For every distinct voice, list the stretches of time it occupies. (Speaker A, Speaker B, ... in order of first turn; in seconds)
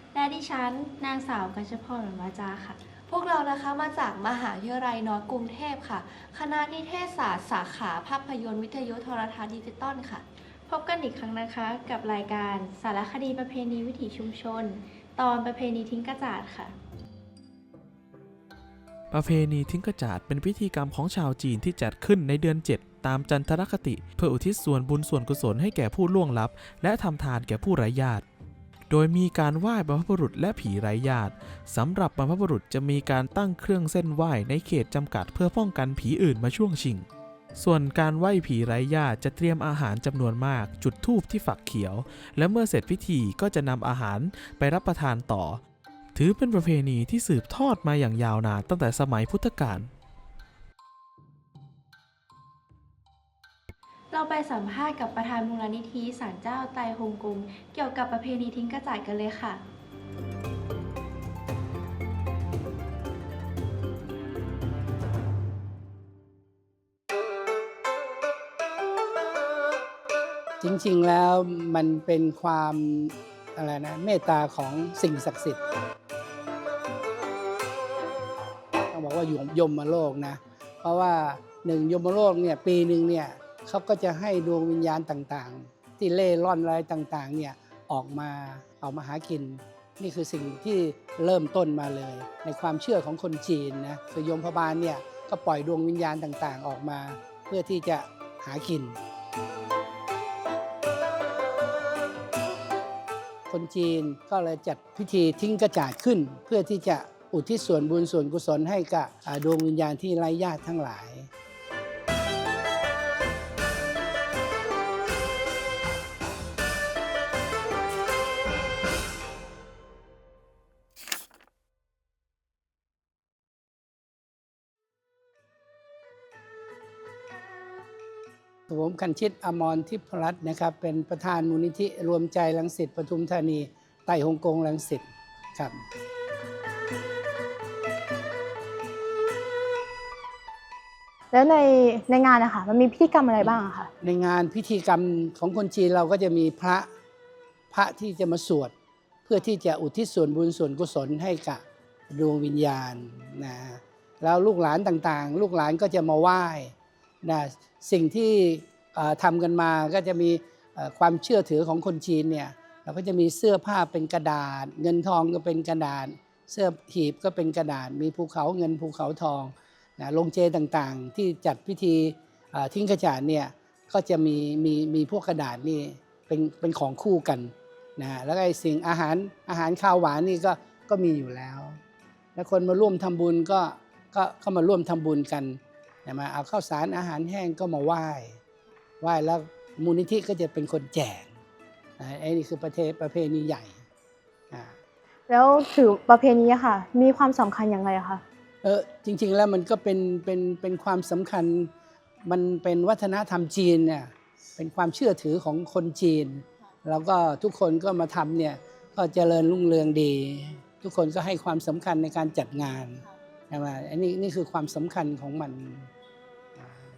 Speaker A: 0.1-2.8, 10.7-16.7, 54.1-59.6
Speaker B: 3.1-10.2
Speaker C: 19.1-28.2, 28.9-45.6, 46.1-49.9
Speaker D: 70.6-75.6, 78.9-99.0, 103.5-111.3, 128.7-135.8, 144.0-146.9, 147.7-148.7, 149.3-181.8, 182.4-188.4, 189.0-191.3, 192.0-193.8, 198.6-201.7, 202.3-215.9
Speaker E: 141.3-143.9, 195.3-198.2